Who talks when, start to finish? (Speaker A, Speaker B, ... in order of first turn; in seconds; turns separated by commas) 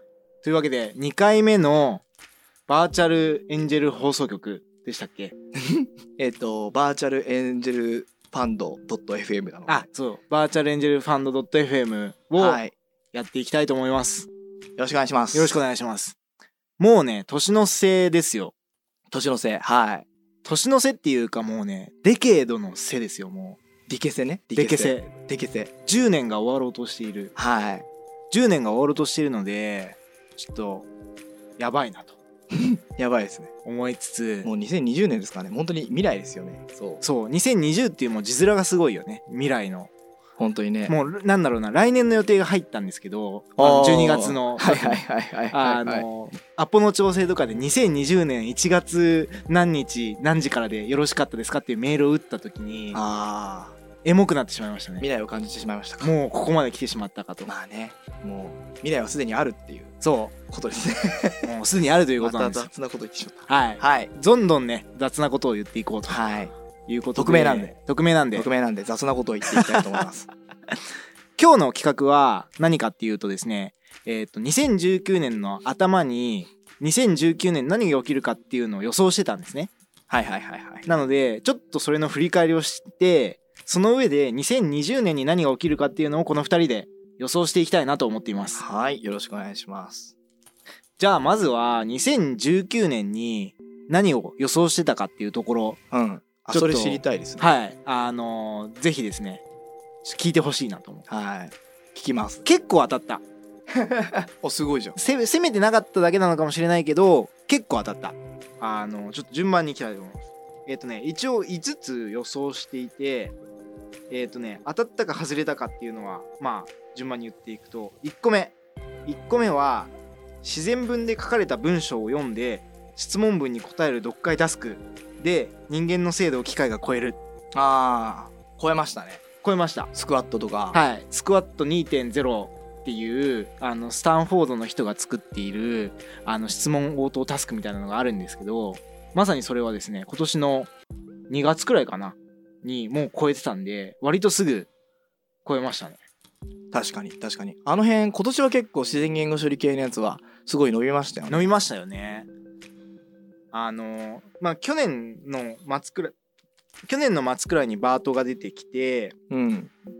Speaker A: 0.4-2.0, Speaker A: 2.7-5.3, Speaker B: 5.6-9.8, Speaker A: 9.7-12.6, Speaker B: 12.4-12.7, Speaker A: 13.1-14.3, Speaker B: 14.8-15.6, Speaker A: 15.3-16.1, Speaker A: 16.8-18.5, Speaker B: 19.1-20.1, Speaker A: 20.4-23.6, Speaker B: 23.9-25.7, Speaker A: 24.5-25.1, Speaker A: 25.8-27.3, Speaker B: 27.4-27.9, Speaker A: 28.3-30.9, Speaker A: 31.6-32.2, Speaker B: 32.5-33.5, Speaker A: 33.6-34.5, Speaker B: 34.4-37.0, Speaker A: 37.0-39.9, Speaker B: 40.4-40.9, Speaker A: 40.9-53.0, Speaker B: 43.6-46.1, Speaker B: 52.9-53.8, Speaker A: 54.0-55.0, Speaker B: 55.0-56.1, Speaker A: 56.0-57.5, Speaker B: 57.5-59.9, Speaker A: 60.0-60.3, Speaker B: 60.5-61.5, Speaker A: 61.4-62.7, Speaker B: 62.2-64.1, Speaker A: 63.5-66.2, Speaker B: 66.1-66.5, Speaker A: 66.8-68.5, Speaker B: 67.2-67.7, Speaker B: 68.3-70.3, Speaker A: 71.4-79.7, Speaker B: 80.1-80.9, Speaker A: 80.8-88.6, Speaker B: 88.5-90.1, Speaker A: 91.0-95.8, Speaker B: 95.9-97.5, Speaker A: 96.5-99.4, Speaker A: 100.0-101.0, Speaker B: 101.1-102.4, Speaker A: 102.4-103.2, Speaker B: 103.7-105.0, Speaker A: 105.0-113.3, Speaker A: 114.1-118.5, Speaker A: 119.0-119.9, Speaker A: 120.4-127.2, Speaker B: 127.5-129.2, Speaker A: 129.4-129.9, Speaker B: 129.9-130.8, Speaker A: 130.7-140.7, Speaker A: 141.3-144.7, Speaker A: 145.4-146.0, Speaker B: 146.7-151.5, Speaker A: 151.3-152.3, Speaker A: 153.5-156.1, Speaker A: 156.8-159.1, Speaker B: 159.3-159.7